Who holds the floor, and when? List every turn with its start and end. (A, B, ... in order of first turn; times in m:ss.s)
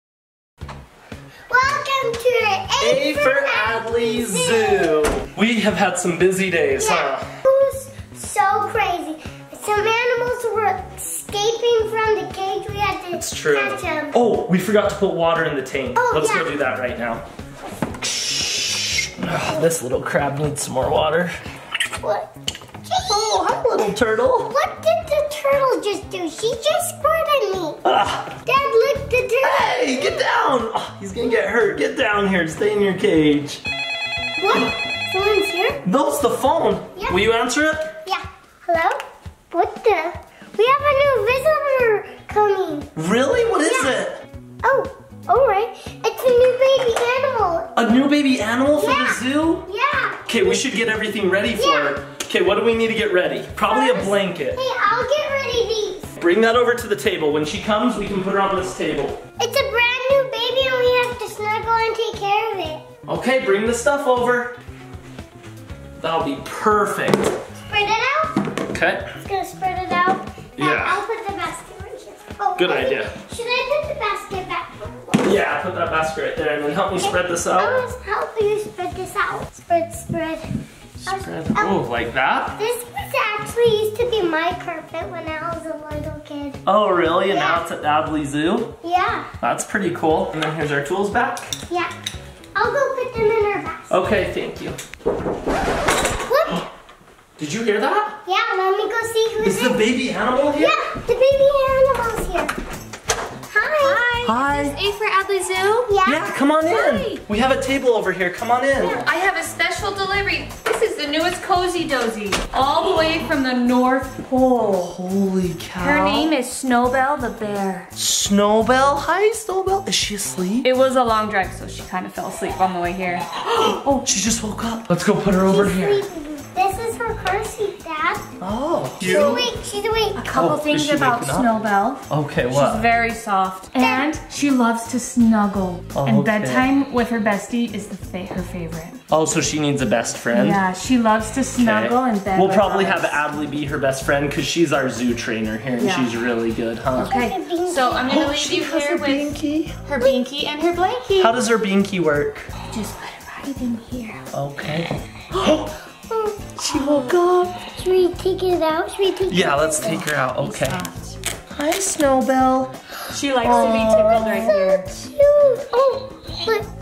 0:01.5-0:05.1 A
0:02.8-0:07.2 B
0:06.8-0:14.2 A
0:13.1-0:17.2 B
0:15.9-0:16.5 A
0:18.0-0:21.4 B
0:22.0-0:22.3 A
0:22.8-0:23.4 A
0:23.1-0:24.5 B
0:24.5-0:27.8 A
0:27.8-0:28.4 B
0:28.4-0:30.2 A
0:29.4-0:33.6 B
0:34.4-0:35.8 A
0:35.8-0:37.9 B
0:38.0-0:39.0 A
0:39.5-0:42.9 A
0:43.0-0:44.2 B
0:43.6-0:44.0 A
0:44.6-0:47.7 A
0:47.7-0:49.7 B
0:48.7-0:50.3 A
0:50.2-0:54.6 B
0:51.5-0:52.0 A
0:53.7-0:56.1 A
0:56.2-0:59.2 B
0:59.4-1:02.8 A
1:03.1-1:04.6 B
1:06.0-1:07.4 B
1:07.7-1:08.6 A
1:08.7-1:09.1 B
1:09.2-1:15.3 A
1:10.6-1:11.0 B
1:12.6-1:13.1 B
1:15.2-1:17.8 B
1:17.0-1:20.5 A
1:21.0-1:22.6 B
1:21.0-1:21.8 A
1:22.6-1:26.6 A
1:26.6-1:28.7 B
1:27.3-1:27.6 A
1:28.8-1:29.3 A
1:29.4-1:31.5 B
1:32.5-1:34.0 A
1:33.9-1:34.8 B
1:36.2-1:36.7 A
1:37.4-1:38.2 B
1:38.2-1:39.9 A
1:39.4-1:40.8 B
1:40.5-1:42.5 A
1:43.5-1:44.1 A
1:43.8-1:45.9 C
1:44.2-1:44.8 B
1:45.9-1:46.3 A
1:46.0-1:49.0 B
1:46.6-1:47.2 C
1:48.8-1:54.3 C
1:54.3-1:56.3 B
1:55.8-1:57.9 C
1:57.9-2:00.6 B
2:00.6-2:04.1 C
2:04.0-2:06.0 B
2:05.4-2:08.2 A
2:08.4-2:09.5 B
2:09.0-2:10.2 A
2:10.1-2:19.0 C
2:10.3-2:11.5 B
2:12.1-2:12.8 B
2:13.7-2:14.1 A
2:15.9-2:16.7 B
2:19.1-2:20.6 B
2:20.3-2:23.2 C
2:21.6-2:27.2 B
2:25.8-2:26.1 C
2:26.9-2:29.4 C
2:27.0-2:28.2 A
2:28.1-2:29.8 B
2:29.9-2:31.4 C
2:31.2-2:32.5 B
2:32.7-2:34.2 C
2:34.3-2:35.7 B
2:36.1-2:36.8 A
2:36.6-2:37.6 B
2:36.8-2:37.1 C
2:37.6-2:40.0 A
2:39.3-2:40.8 B
2:40.4-2:41.2 C
2:41.5-2:42.7 B
2:43.1-2:44.9 C
2:43.4-2:44.5 B
2:43.4-2:46.6 A